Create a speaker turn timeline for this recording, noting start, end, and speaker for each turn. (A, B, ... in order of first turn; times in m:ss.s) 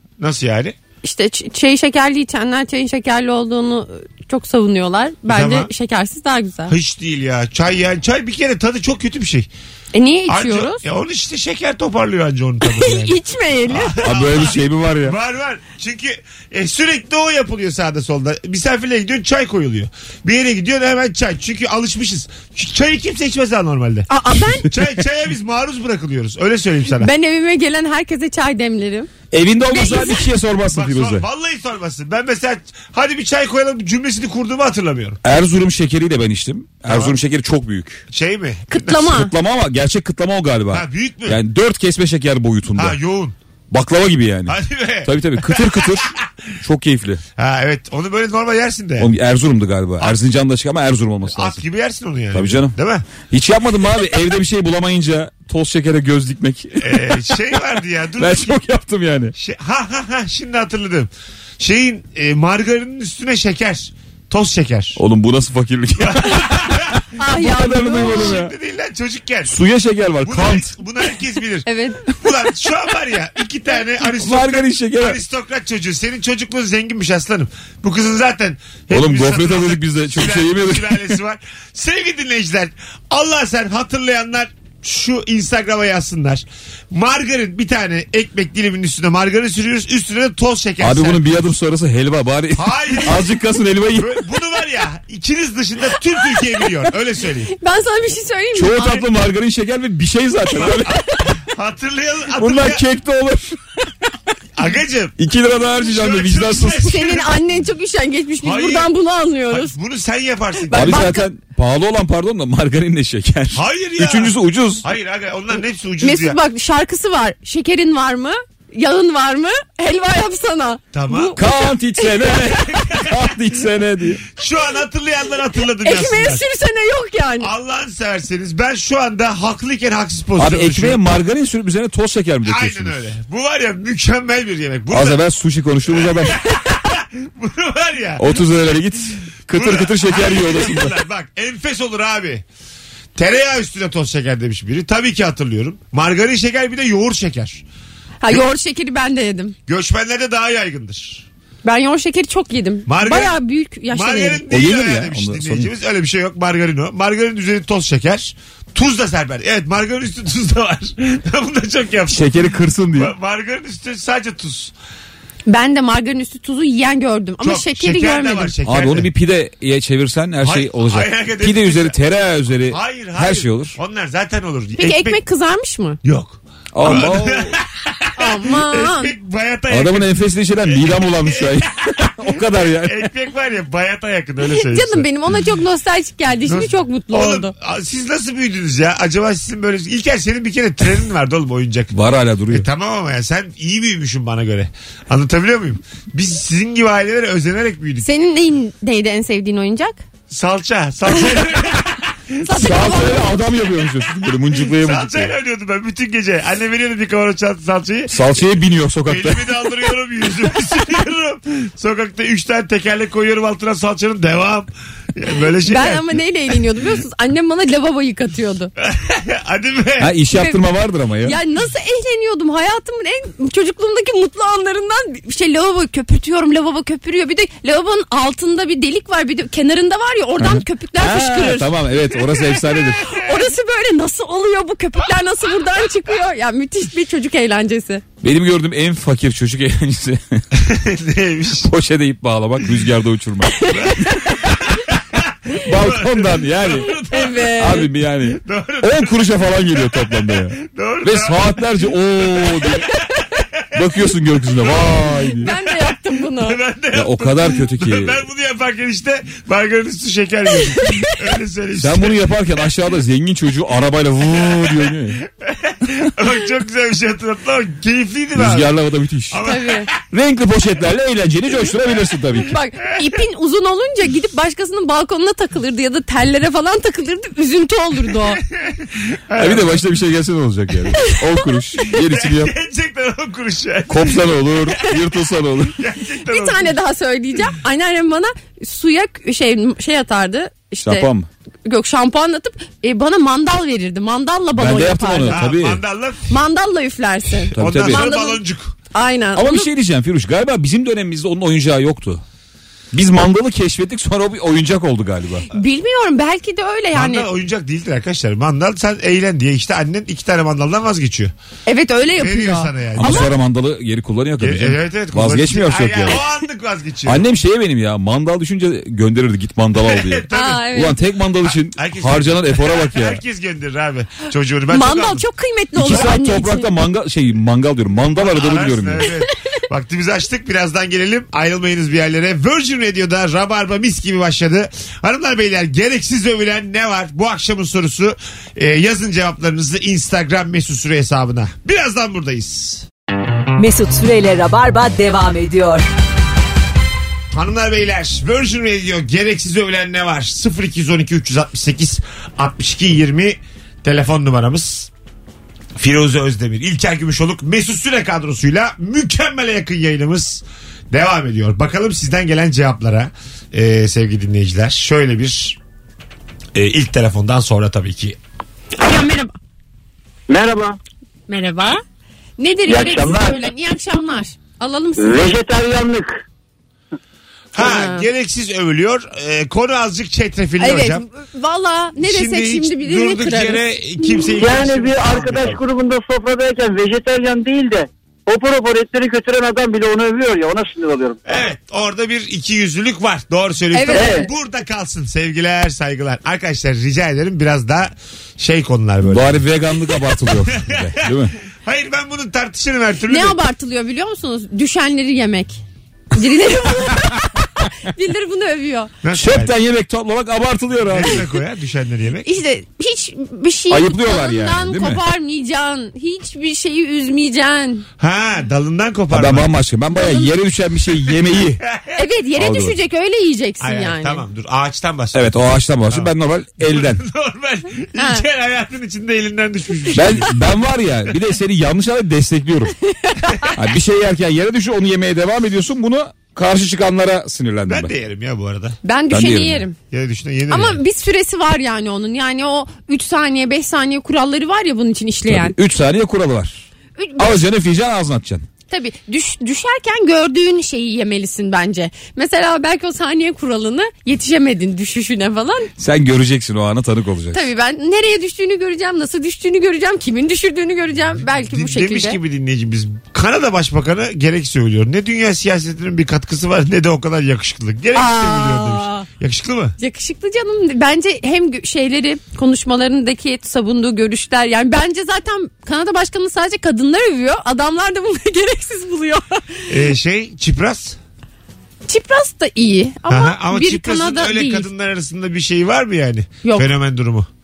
0:00.2-0:00.8 A
0:01.0-0:06.8 B
0:05.3-0:05.7 A
0:06.7-0:09.5 A
0:09.9-0:10.8 B
0:10.3-0:13.2 A
0:12.6-0:14.0 B
0:13.7-0:24.1 A
0:14.0-0:15.2 C
0:24.1-0:24.7 B
0:24.7-0:27.1 A
0:26.9-0:29.1 B
0:29.3-0:31.3 C
0:29.7-0:30.3 B
0:30.7-0:35.2 A
0:35.2-0:38.0 C
0:36.9-0:37.2 A
0:38.1-0:39.2 A
0:38.7-0:39.3 B
0:39.1-0:43.0 C
0:40.7-0:41.4 A
0:42.8-0:43.4 A
0:43.7-0:47.2 C
0:44.5-0:46.2 A
0:47.4-0:49.1 A
0:49.0-0:51.6 C
0:51.3-0:53.1 A
0:52.3-0:57.4 C
0:56.8-0:58.6 A
0:58.2-0:59.3 C
0:59.4-1:05.0 A
1:05.0-1:08.5 C
1:06.0-1:07.0 A
1:07.2-1:08.4 B
1:07.8-1:09.6 A
1:09.5-1:10.7 C
1:10.2-1:31.2 A
1:11.6-1:12.2 B
1:14.2-1:15.2 C
1:18.9-1:21.2 C
1:30.8-1:34.2 C
1:32.6-1:33.4 A
1:33.9-1:37.5 A
1:37.5-1:39.1 B
1:38.5-1:41.0 C
1:40.6-1:42.8 A
1:42.4-1:43.6 C
1:44.6-1:45.2 A
1:45.2-1:47.0 C
1:45.8-1:47.4 A
1:46.8-1:49.8 B
1:48.4-1:48.9 A
1:49.5-1:51.1 A
1:50.7-1:51.3 B
1:50.7-1:54.8 C
1:53.5-1:56.4 A
1:56.0-2:02.5 B
2:00.9-2:01.4 A
2:01.4-2:04.2 C
2:02.8-2:03.1 A
2:04.4-2:06.4 A
2:05.8-2:07.5 B
2:07.4-2:11.0 A
2:10.4-2:13.0 C
2:12.4-2:15.2 A
2:14.9-2:16.4 C
2:15.9-2:18.3 A
2:18.2-2:21.0 C
2:19.5-2:22.4 A
2:23.2-2:27.6 A
2:28.2-2:29.6 B
2:29.7-2:31.3 A
2:31.6-2:34.4 B
2:32.9-2:33.4 A
2:33.9-2:42.3 A
2:34.5-2:35.7 C
2:42.1-2:43.1 C
2:42.9-2:44.7 A
2:45.5-2:48.6 B
2:47.4-2:49.1 A
2:48.6-2:53.8 C
2:50.4-2:52.0 A
2:52.7-2:55.2 A
2:54.8-2:56.0 B
2:56.0-3:05.1 A
2:56.7-2:57.6 C
2:58.2-2:59.1 B
2:59.7-3:03.1 C
3:04.4-3:07.5 B
3:06.4-3:11.9 A
3:11.9-3:12.7 C
3:12.5-3:18.1 A
3:18.0-3:20.0 B
3:20.3-3:22.2 A
3:22.4-3:23.4 B
3:22.5-3:25.4 C
3:24.5-3:28.3 A
3:28.1-3:29.5 C
3:29.0-3:36.2 A
3:35.6-3:38.7 B
3:38.8-3:40.1 A
3:40.0-3:41.4 C
3:40.3-3:40.6 B
3:41.2-3:51.8 B
3:50.4-3:53.2 C
3:53.0-3:58.0 B
3:58.2-4:00.5 C
4:00.6-4:01.7 A
4:01.6-4:03.7 C
4:03.6-4:03.9 B
4:03.7-4:12.8 A
4:05.6-4:07.0 C
4:07.1-4:07.9 B
4:07.6-4:12.9 C
4:13.6-4:13.9 A
4:13.7-4:15.5 C
4:14.5-4:22.2 A
4:15.4-4:16.6 B
4:16.9-4:18.3 C
4:21.8-4:25.2 C
4:25.3-4:28.8 A
4:28.3-4:29.4 C
4:29.3-4:30.0 A
4:29.4-4:29.9 B
4:30.1-4:32.6 C
4:32.5-4:38.4 B
4:38.5-4:39.8 A
4:39.4-4:42.5 C
4:41.9-4:45.1 A
4:43.9-4:45.8 C
4:45.6-4:46.8 A
4:46.3-4:51.1 B
4:50.8-4:51.3 C
4:51.7-4:55.4 B
4:54.6-4:55.8 C
4:55.3-4:56.3 A
4:56.3-4:59.7 B
4:57.5-4:58.1 C
4:57.6-4:58.8 A
4:59.4-5:02.2 C
5:02.9-5:05.5 C
5:05.5-5:07.3 B
5:06.9-5:11.3 A
5:11.7-5:13.3 B
5:12.2-5:13.3 A
5:13.0-5:16.2 C
5:14.4-5:17.2 A
5:17.0-5:23.2 C
5:19.8-5:20.7 A
5:20.3-5:21.0 B
5:21.4-5:25.2 A
5:24.7-5:26.7 B
5:25.8-5:29.1 C
5:28.1-5:42.9 A
5:43.6-5:45.8 D
5:47.3-5:54.9 A
5:55.8-6:05.6 A
6:06.6-6:08.2 A
6:08.8-6:09.4 B
6:10.3-6:10.8 E
6:11.3-6:11.8 B
6:12.4-6:15.4 B
6:12.7-6:13.4 E
6:15.0-6:16.2 E
6:17.6-6:21.0 A
6:17.6-6:18.1 B
6:20.6-6:23.6 B
6:22.0-6:25.6 A
6:24.4-6:31.2 E
6:31.3-6:39.4 A
6:33.7-6:34.2 B
6:33.9-6:34.3 E
6:39.0-6:41.3 C
6:40.5-6:41.1 A
6:41.6-6:43.4 A
6:43.1-6:45.6 B
6:46.1-6:48.9 B
6:49.0-6:49.5 A
6:49.1-6:51.3 C
6:50.9-6:52.3 A
6:52.2-6:57.9 B
6:53.7-6:55.0 C
6:58.0-6:59.5 A
6:59.1-7:01.6 C
7:00.0-7:00.3 B
7:01.7-7:01.9 A
7:02.0-7:04.2 B
7:02.4-7:02.8 C
7:03.6-7:10.4 A
7:05.1-7:07.0 C
7:08.0-7:08.2 B
7:09.9-7:12.7 C
7:12.9-7:13.5 B
7:13.6-7:17.9 C
7:17.7-7:18.8 A
7:18.8-7:19.8 B
7:19.1-7:19.6 C
7:19.9-7:20.8 A
7:20.5-7:25.6 B
7:25.3-7:26.7 C
7:27.0-7:27.4 B
7:27.2-7:28.5 C
7:28.7-7:35.7 B
7:35.8-7:37.5 C
7:37.3-7:42.2 B
7:41.5-7:49.8 A
7:47.9-7:49.1 B
7:49.8-7:59.7 B
7:59.7-8:01.0 A
8:01.9-8:04.7 B
8:03.1-8:07.3 A
8:06.4-8:06.7 B